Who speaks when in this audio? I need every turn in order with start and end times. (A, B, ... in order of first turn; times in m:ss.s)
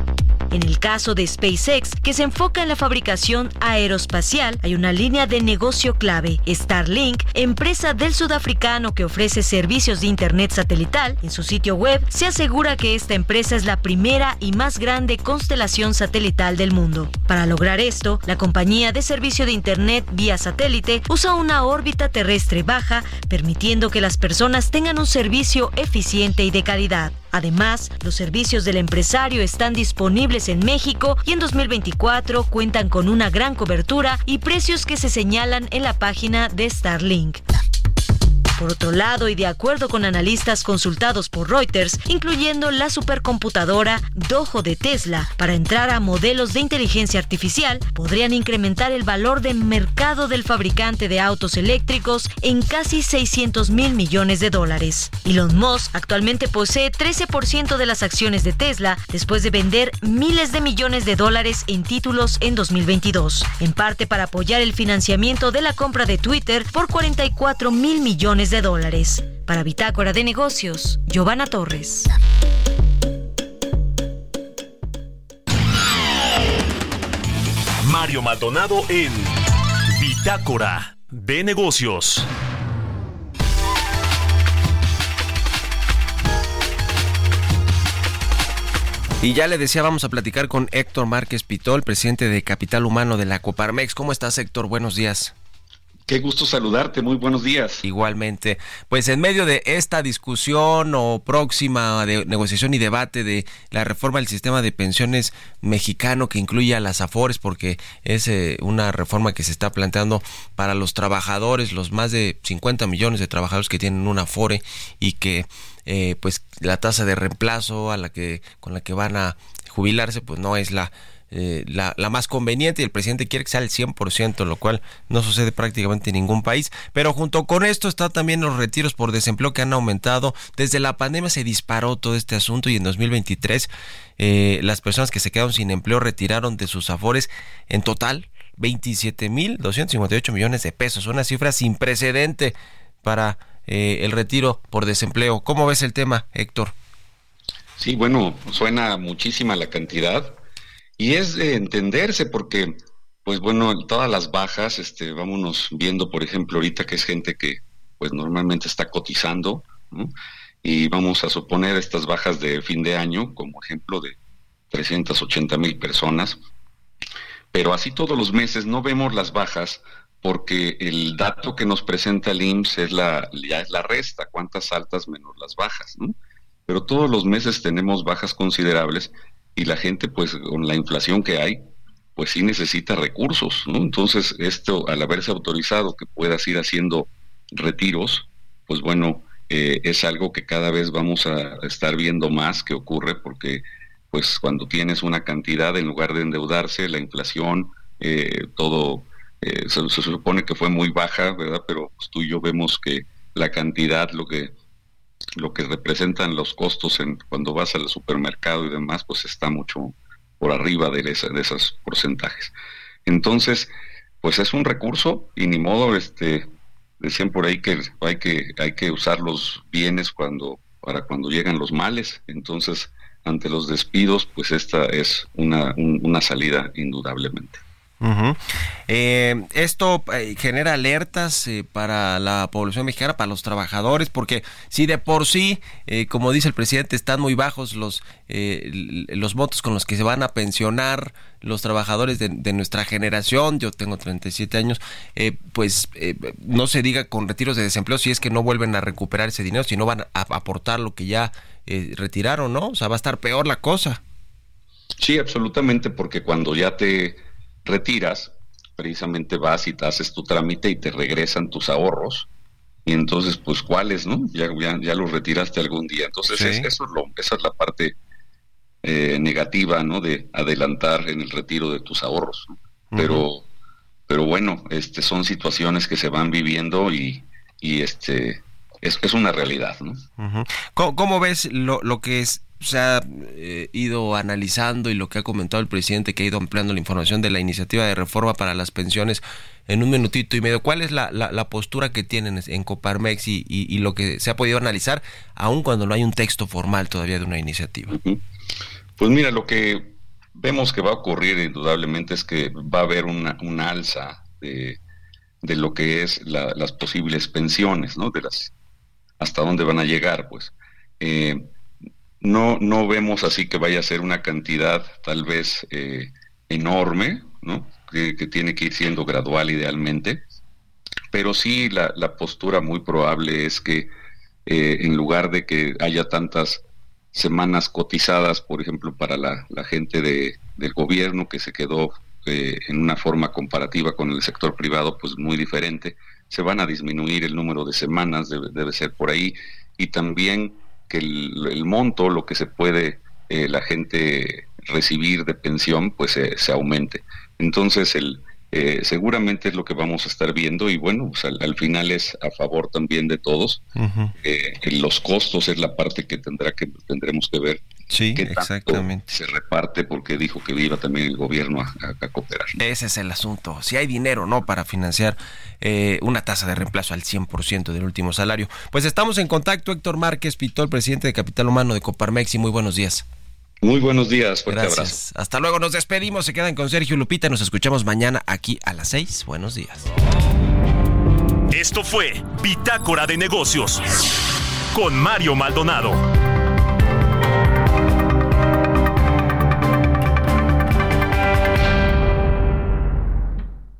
0:00.5-0:37.4 A
0:38.6-1:12.1 A
1:17.8-1:19.4 B
1:19.9-1:22.3 B
1:29.2-1:35.3 C
1:36.1-1:37.8 D
1:37.8-2:26.7 C
2:27.8-2:30.4 D
2:31.0-2:40.1 D
2:40.6-2:44.2 D
2:44.7-2:46.4 D
2:47.5-2:56.1 D
2:56.7-3:01.6 D
3:02.2-3:24.5 D
3:25.4-3:32.5 D
3:33.0-3:36.5 D
3:37.0-3:47.6 D
3:48.0-4:14.0 C
4:15.0-4:22.3 D
4:22.8-4:27.9 D
4:26.3-4:26.7 C
4:28.8-4:33.4 D
4:32.9-4:33.2 C
4:34.1-4:40.0 D
4:40.2-4:57.9 C
4:57.9-4:58.2 D
4:59.0-5:04.8 D
5:05.4-5:08.5 D
5:09.2-5:11.4 D
5:12.2-5:20.2 D
5:21.1-5:23.9 D
5:24.4-5:26.6 D
5:27.1-5:53.6 D
5:53.8-5:54.1 C
5:54.2-5:57.6 D
5:57.9-5:59.0 C
5:58.1-6:02.6 D
6:02.6-6:13.0 C
6:13.6-6:15.0 D
6:14.5-6:19.9 C
6:21.5-6:23.8 B
6:24.7-6:26.0 B